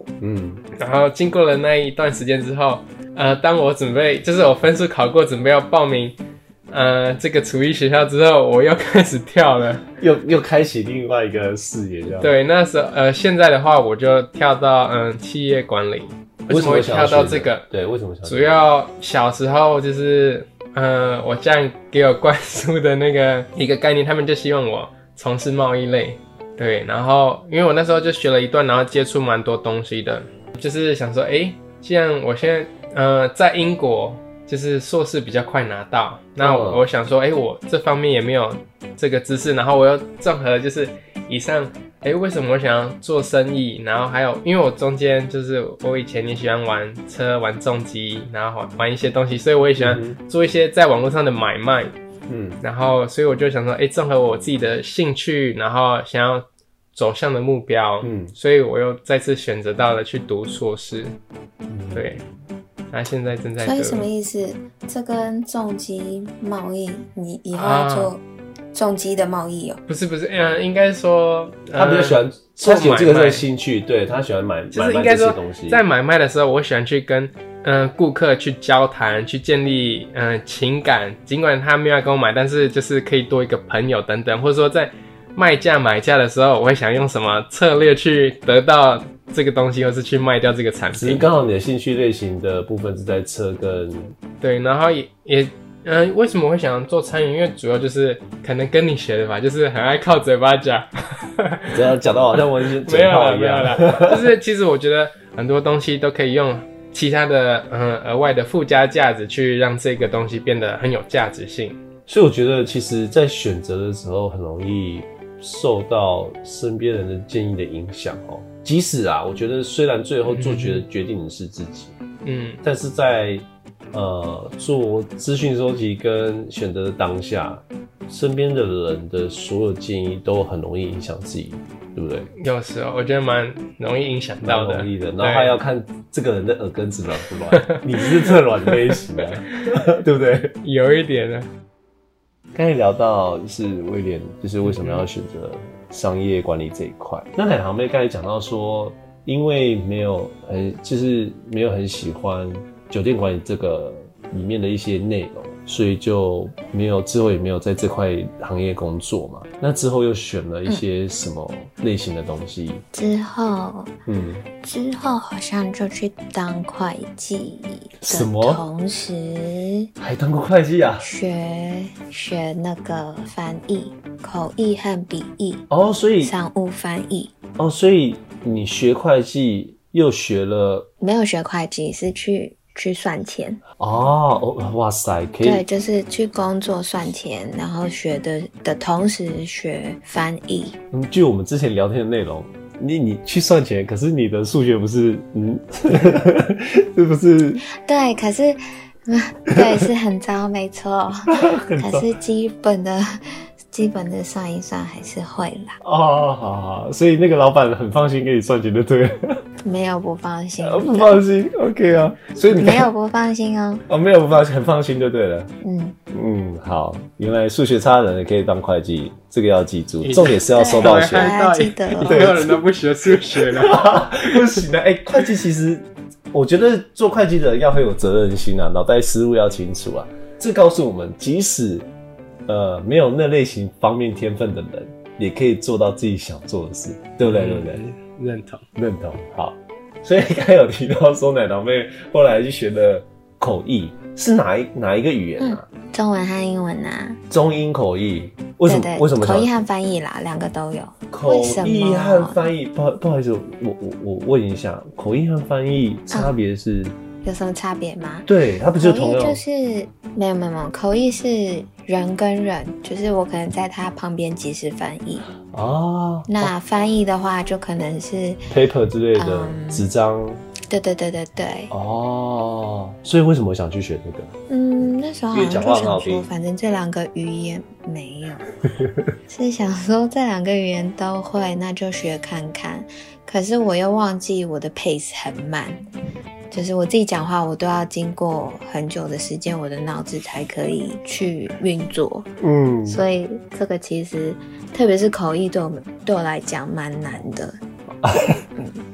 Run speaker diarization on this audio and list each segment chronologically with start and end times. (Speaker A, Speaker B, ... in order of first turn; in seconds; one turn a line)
Speaker A: 0.2-0.6
Speaker B: 0.8-6.2
Speaker B: 6.7-9.8
Speaker A: 10.0-12.3
Speaker B: 12.1-17.7
Speaker A: 16.5-18.6
Speaker B: 18.3-52.0
Speaker A: 36.4-36.9
Speaker A: 49.8-50.2
Speaker A: 52.3-52.6
Speaker B: 52.6-61.2
Speaker A: 58.0-58.3
Speaker A: 61.7-62.2
Speaker B: 61.9-62.2
Speaker B: 62.9-64.1
Speaker C: 63.6-68.2
Speaker B: 67.5-68.1
Speaker C: 68.7-69.8
Speaker B: 69.9-73.4
Speaker A: 71.8-75.8
Speaker B: 74.7-91.3
Speaker A: 91.0-94.2
Speaker B: 94.4-101.9
Speaker A: 101.7-104.3
Speaker B: 102.8-111.8
Speaker A: 112.1-122.0
Speaker B: 120.3-120.8
Speaker B: 122.2-122.6
Speaker A: 122.6-132.3
Speaker B: 132.4-135.5
Speaker A: 134.4-140.6
Speaker B: 137.7-139.0
Speaker B: 140.6-141.5
Speaker A: 142.5-162.8
Speaker B: 144.6-145.1
Speaker C: 162.9-163.9
Speaker A: 164.1-164.4
Speaker C: 164.6-169.9
Speaker A: 168.0-168.7
Speaker A: 170.0-171.1
Speaker C: 171.0-175.7
Speaker A: 175.7-176.3
Speaker C: 176.2-177.3
Speaker A: 177.6-180.9
Speaker C: 181.0-183.6
Speaker A: 183.8-185.7
Speaker C: 185.4-190.8
Speaker A: 190.9-197.6
Speaker C: 197.7-205.8
Speaker A: 201.3-202.1
Speaker A: 205.8-209.4
Speaker C: 209.7-211.2
Speaker A: 210.6-212.9
Speaker C: 212.5-213.8
Speaker A: 213.9-215.5
Speaker C: 215.6-216.0
Speaker A: 216.1-221.4
Speaker B: 220.0-224.7
Speaker C: 220.5-222.3
Speaker A: 222.0-231.9
Speaker A: 232.5-237.8
Speaker B: 237.3-238.7
Speaker A: 238.8-245.7
Speaker C: 245.4-247.2
Speaker A: 247.3-249.6
Speaker C: 248.7-252.4
Speaker A: 251.1-257.0
Speaker C: 257.2-265.3
Speaker A: 258.3-259.4
Speaker A: 265.5-266.5
Speaker C: 266.3-268.4
Speaker A: 268.5-270.4
Speaker C: 269.1-269.9
Speaker C: 270.7-271.7
Speaker A: 271.7-274.3
Speaker C: 274.5-278.5
Speaker A: 275.3-276.3
Speaker C: 279.3-285.9
Speaker C: 286.5-292.3
Speaker A: 292.4-293.1
Speaker C: 292.9-297.6
Speaker A: 298.0-298.6